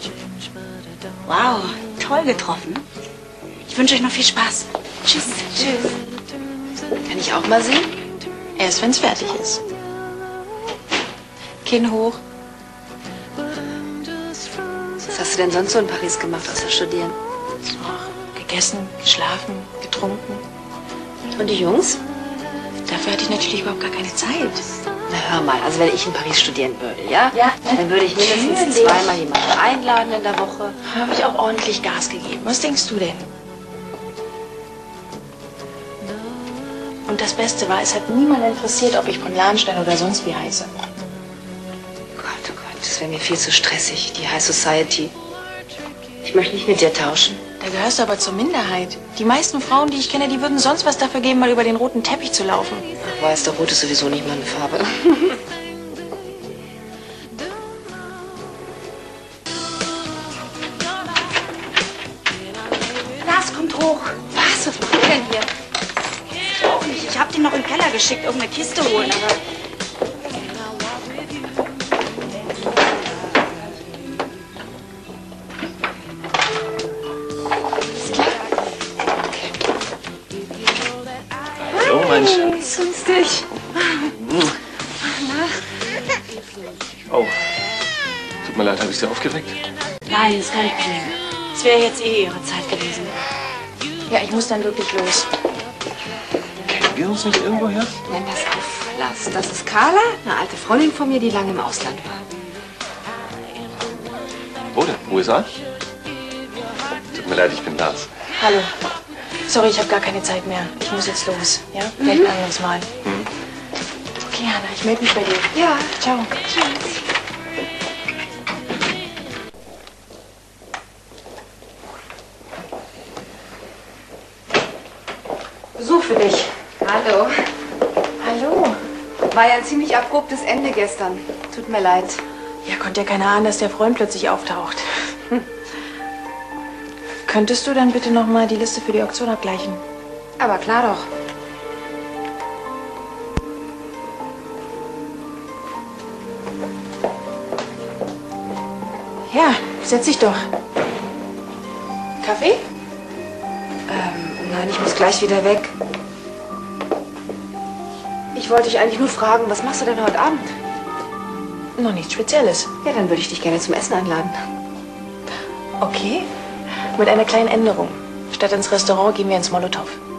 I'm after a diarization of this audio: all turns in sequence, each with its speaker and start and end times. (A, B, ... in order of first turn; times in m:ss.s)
0:01.2-0:02.9 A
0:03.6-0:05.5 A
0:05.4-0:05.9 B
0:07.1-0:08.0 B
0:08.6-0:09.6 C
0:11.6-0:12.2 C
0:15.1-0:17.2 B
0:17.6-0:20.4 C
0:21.3-0:22.0 B
0:22.9-0:24.7 C
0:25.1-0:30.8 B
0:27.3-0:29.2 C
0:30.8-0:33.3 C
0:37.1-0:40.7 C
0:42.1-0:45.1 B
0:46.2-0:47.4 B
0:47.6-0:52.9 C
0:53.0-0:55.4 B
1:03.2-1:04.2 A
1:04.3-1:05.5 B
1:06.6-1:09.4 A
1:17.9-1:18.5 B
1:19.3-1:19.5 B
1:21.7-1:22.5 D
1:21.7-1:24.1 B
1:25.0-1:25.6 B
1:28.4-1:29.6 D
1:30.1-1:33.2 A
1:34.1-1:35.3 C
1:36.7-1:38.0 D
1:38.1-1:42.2 B
1:44.7-1:45.5 D
1:47.1-1:48.1 D
1:48.4-1:48.7 C
1:49.5-1:52.9 C
1:53.0-1:53.3 D
1:54.2-1:56.3 C
1:55.5-1:57.0 B
2:05.8-2:07.3 B
2:08.2-2:08.8 C
2:09.3-2:12.2 B
2:12.6-2:14.9 C
2:17.3-2:19.8 C
2:20.4-2:21.1 B
2:29.3-2:30.5 C
2:32.2-2:32.6 C
2:33.9-2:35.8 B
2:38.3-2:40.5 B
2:41.8-2:42.7 C
2:42.8-2:44.4 B
2:45.8-2:46.3 C
2:46.9-2:50.0 C